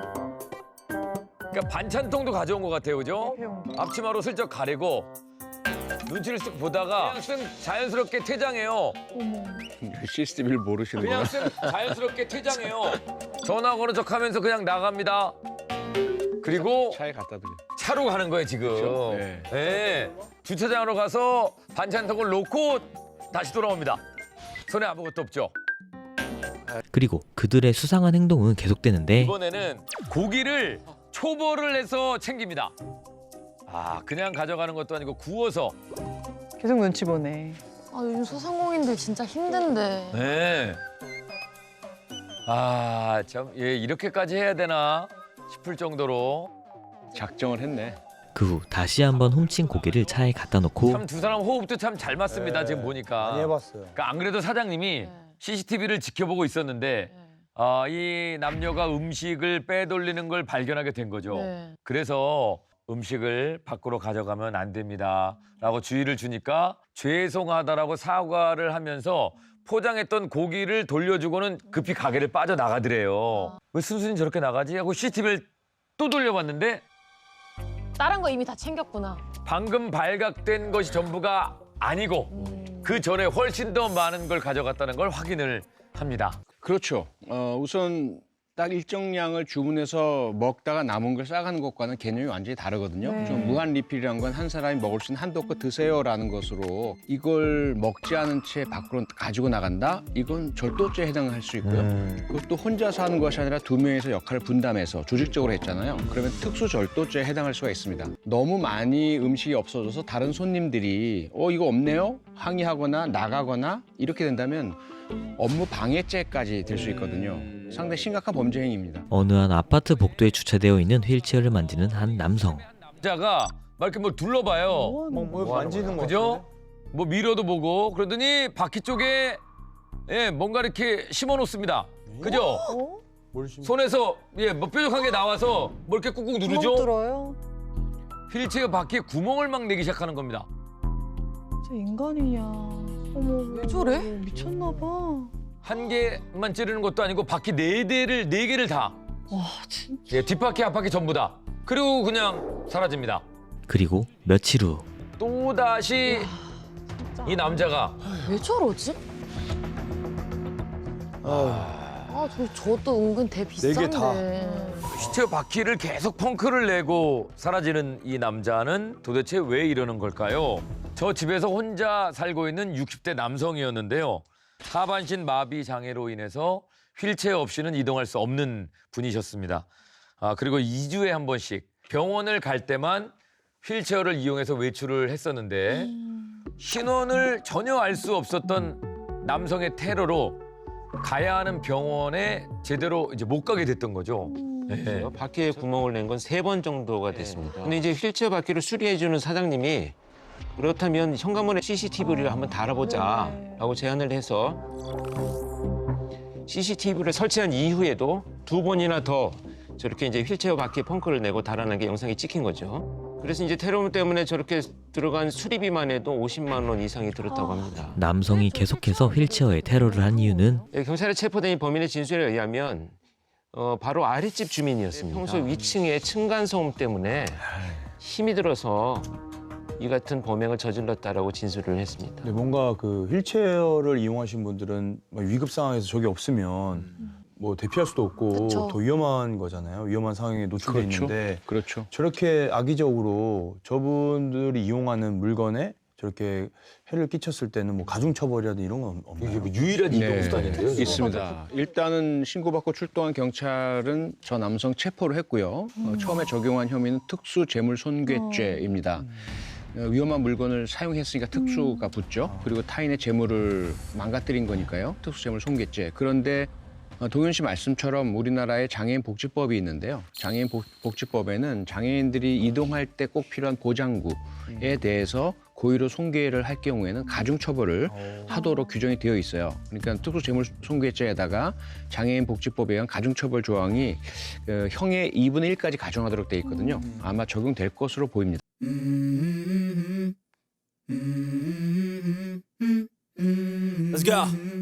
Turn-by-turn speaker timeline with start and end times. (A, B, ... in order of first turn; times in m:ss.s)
0:01.5-0:05.1 A
0:03.2-0:03.8 B
0:06.0-0:09.0 A
0:09.1-0:09.7 B
0:09.8-0:11.7 C
0:11.0-0:15.4 A
0:16.4-0:17.0 A
0:16.4-0:17.6 C
0:17.8-0:24.0 A
0:18.7-0:19.5 C
0:24.7-0:25.5 A
0:26.9-0:29.4 D
0:29.2-0:32.7 A
0:33.7-0:35.8 A
0:36.6-0:37.6 B
0:37.9-0:40.3 E
0:40.1-0:40.8 A
0:42.4-0:46.5 A
0:47.1-0:48.0 C
0:48.3-0:51.0 D
0:50.8-1:15.5 A
0:52.3-0:54.0 F
0:55.0-0:55.3 E
1:01.3-1:01.8 E
1:16.0-1:16.8 A
1:18.0-1:19.2 E
1:19.4-1:26.4 A
1:22.3-1:23.0 E
1:26.6-1:54.8 C
1:33.0-1:33.6 B
1:41.6-1:42.3 A
1:55.4-1:59.1 C
1:59.1-2:02.7 D
2:02.9-2:09.4 A
2:04.7-2:05.8 B
2:05.1-2:06.4 F
2:10.1-2:12.6 A
2:12.1-2:12.4 F
2:12.2-2:13.0 B
2:12.4-2:12.8 E
2:13.3-2:13.8 F
2:13.6-2:16.9 A
2:16.4-2:17.4 B
2:18.3-2:20.5 A
2:21.6-2:25.3 B
2:23.5-2:24.1 E
2:25.6-2:29.0 A
2:29.3-2:30.2 B
2:30.1-2:33.2 A
2:33.7-2:34.9 D
2:35.2-2:36.3 A
2:37.0-2:37.5 B
2:37.2-2:38.0 A
2:38.0-2:38.4 F
2:38.2-2:39.0 E
2:41.2-2:41.8 F
2:41.2-2:42.2 A
2:42.1-2:44.9 E
2:43.6-2:44.2 F
2:44.3-2:44.9 B
2:44.9-2:59.7 A
3:00.2-3:05.9 A
3:05.7-3:06.1 B
3:06.6-3:10.4 A
3:11.0-3:15.1 A
3:14.2-3:15.1 B
3:14.8-3:20.0 G
3:20.5-3:24.6 G
3:22.0-3:23.6 B
3:26.5-3:38.0 G
3:37.3-3:37.7 E
3:37.9-3:40.6 D
3:38.6-3:40.6 B
3:38.6-3:39.3 E
3:40.7-3:43.0 G
3:43.5-3:49.1 G
3:49.8-3:52.3 G
3:52.2-4:10.4 F
3:58.3-3:58.8 E
4:00.6-4:01.9 C
4:09.2-4:11.1 A
4:09.9-4:19.1 C
4:10.7-4:11.4 B
4:15.8-4:16.3 B
4:18.0-4:18.7 B
4:19.7-4:48.4 C
4:21.3-4:21.9 B
4:22.2-4:22.5 F
4:38.3-4:38.7 B
4:53.9-4:54.4 A